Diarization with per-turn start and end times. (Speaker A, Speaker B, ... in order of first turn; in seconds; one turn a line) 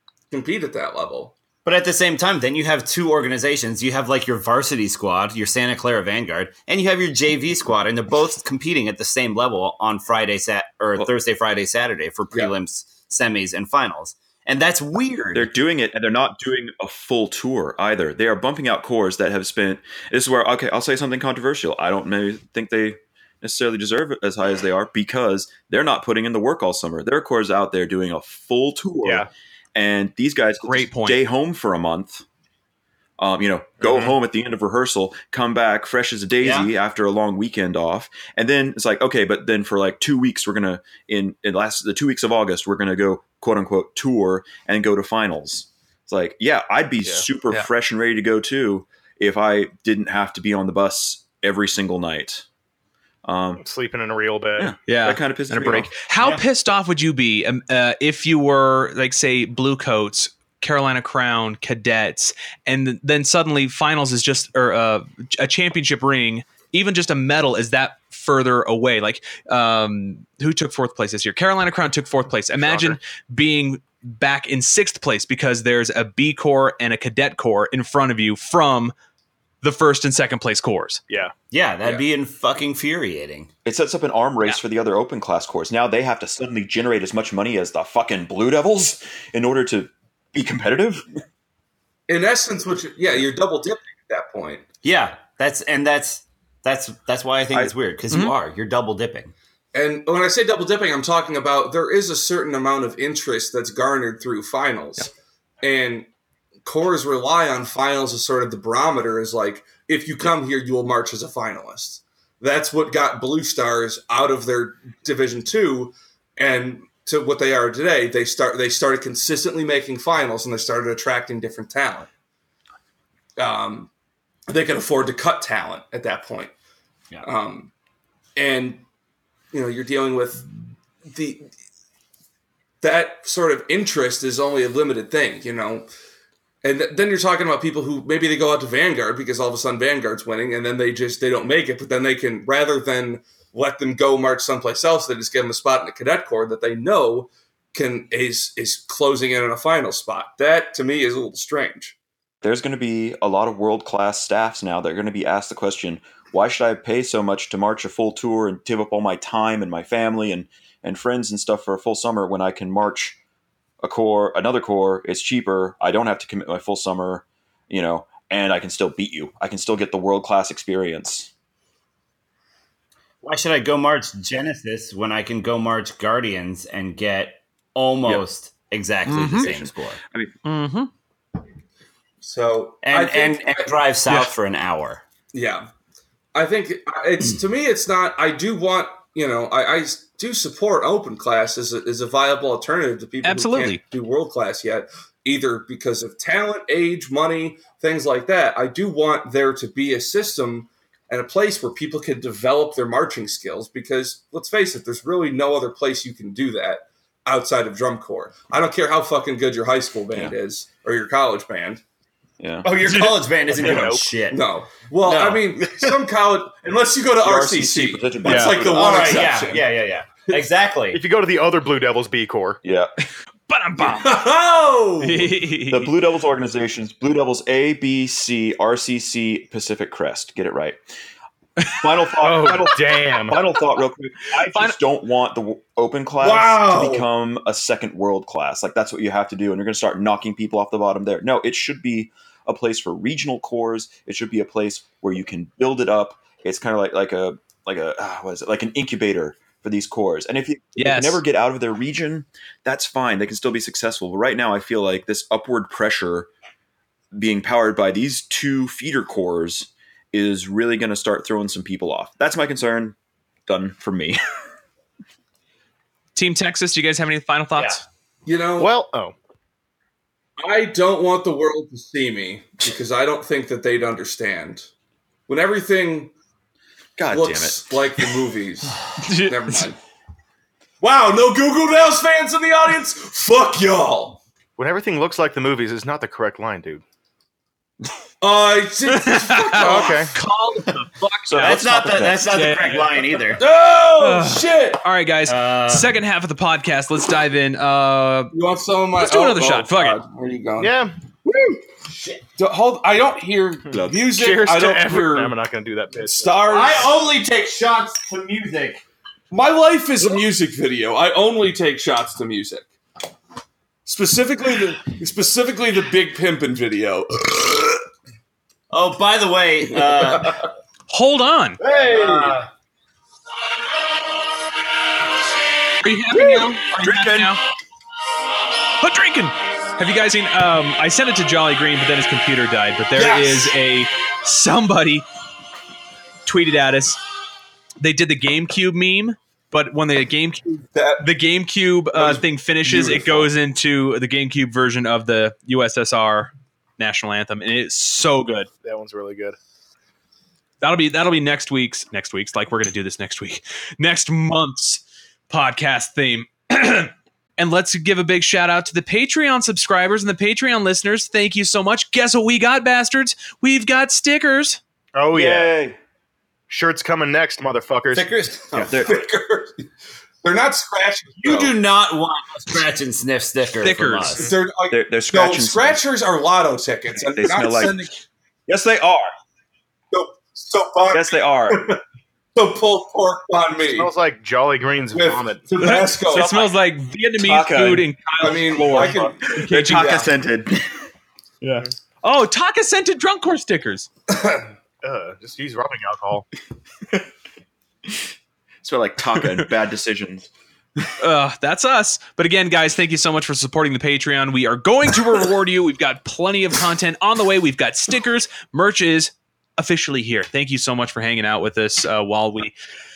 Speaker A: 0.3-1.3
Speaker B: 1.6-15.5
Speaker C: 15.3-32.2
Speaker D: 29.0-29.3
Speaker E: 30.6-31.2
Speaker C: 33.2-52.5
Speaker D: 33.8-34.1
Speaker B: 36.4-36.7
Speaker C: 53.2-53.6
Speaker D: 53.6-54.7
Speaker C: 54.6-55.9
Speaker E: 54.9-78.9
Speaker D: 72.6-73.0
Speaker E: 79.6-81.0
Speaker B: 81.5-83.5
Speaker C: 83.7-91.1
Speaker A: 92.1-94.7
Speaker B: 94.8-99.3
Speaker C: 97.5-98.2
Speaker A: 99.7-105.1
Speaker A: 105.6-106.1
Speaker A: 106.7-122.1
Speaker A: 123.4-123.9
Speaker A: 124.5-126.5
Speaker A: 127.2-127.7
Speaker A: 128.4-128.8
Speaker A: 129.5-130.5
Speaker A: 131.1-131.5
Speaker A: 132.8-135.9
Speaker A: 136.6-152.0
Speaker C: 152.4-163.2
Speaker C: 163.8-171.3
Speaker B: 173.2-180.0
Speaker C: 179.1-180.4
Speaker E: 180.4-180.9
Speaker A: 182.2-183.7
Speaker B: 182.8-185.0
Speaker A: 185.3-185.7
Speaker A: 186.3-211.8
Speaker E: 193.2-193.8
Speaker C: 212.4-212.7
Speaker B: 212.6-214.5
Speaker D: 213.5-214.1
Speaker A: 213.8-220.4
Speaker B: 215.0-215.9
Speaker C: 217.2-219.6
Speaker E: 218.2-218.6
Speaker B: 218.7-221.0
Speaker D: 220.9-222.6
Speaker C: 222.6-222.9
Speaker E: 223.5-224.2
Speaker A: 223.8-225.3
Speaker E: 225.0-225.9
Speaker C: 225.7-230.8
Speaker C: 231.7-256.3
Speaker D: 232.2-233.4
Speaker E: 234.5-234.8
Speaker A: 236.2-237.1
Speaker E: 250.8-251.2
Speaker C: 257.1-263.0
Speaker C: 263.5-264.2
Speaker E: 266.1-267.8
Speaker A: 268.3-268.7
Speaker D: 268.6-269.1
Speaker A: 270.4-274.7
Speaker A: 275.3-276.1
Speaker C: 277.0-278.0
Speaker A: 277.1-279.8
Speaker E: 279.0-279.7
Speaker A: 280.8-284.2
Speaker D: 284.6-286.8
Speaker A: 288.2-290.0
Speaker E: 288.9-291.6
Speaker D: 289.6-290.1
Speaker C: 291.3-292.4
Speaker B: 291.4-293.4
Speaker E: 292.3-293.2
Speaker A: 293.4-294.8
Speaker E: 294.0-298.3
Speaker B: 295.3-295.9
Speaker A: 298.3-300.8
Speaker E: 299.0-300.0
Speaker D: 300.6-300.9
Speaker B: 301.9-302.2
Speaker A: 302.4-305.3
Speaker D: 303.8-306.4
Speaker A: 306.0-306.9
Speaker B: 306.5-308.8
Speaker A: 309.3-312.7
Speaker A: 313.9-317.8
Speaker B: 318.7-320.5
Speaker E: 320.9-321.6
Speaker B: 321.6-322.5
Speaker A: 321.8-322.4
Speaker E: 325.8-327.4
Speaker C: 326.1-327.4
Speaker E: 328.8-335.1
Speaker A: 333.0-333.6
Speaker E: 336.3-337.0
Speaker E: 337.8-348.5
Speaker A: 340.8-341.1
Speaker A: 341.9-343.3
Speaker D: 348.6-349.4
Speaker E: 350.6-364.6
Speaker D: 365.0-365.6
Speaker C: 365.1-365.8
Speaker D: 366.5-368.1
Speaker B: 367.9-368.6
Speaker A: 368.5-369.7
Speaker C: 368.6-369.0
Speaker A: 370.2-371.6
Speaker B: 371.2-374.3
Speaker E: 373.6-374.3
Speaker A: 374.2-378.0
Speaker C: 374.7-375.8
Speaker C: 377.0-377.8
Speaker C: 378.5-379.1
Speaker A: 379.9-381.8
Speaker C: 380.9-381.7
Speaker A: 382.4-383.9
Speaker D: 383.8-385.5
Speaker A: 384.9-386.3
Speaker E: 385.6-390.0
Speaker C: 386.1-386.5
Speaker C: 387.2-390.7
Speaker A: 388.2-390.1
Speaker E: 391.4-393.9
Speaker A: 394.1-394.4
Speaker D: 394.8-396.3
Speaker C: 398.6-400.3
Speaker E: 399.2-399.5
Speaker E: 401.0-412.5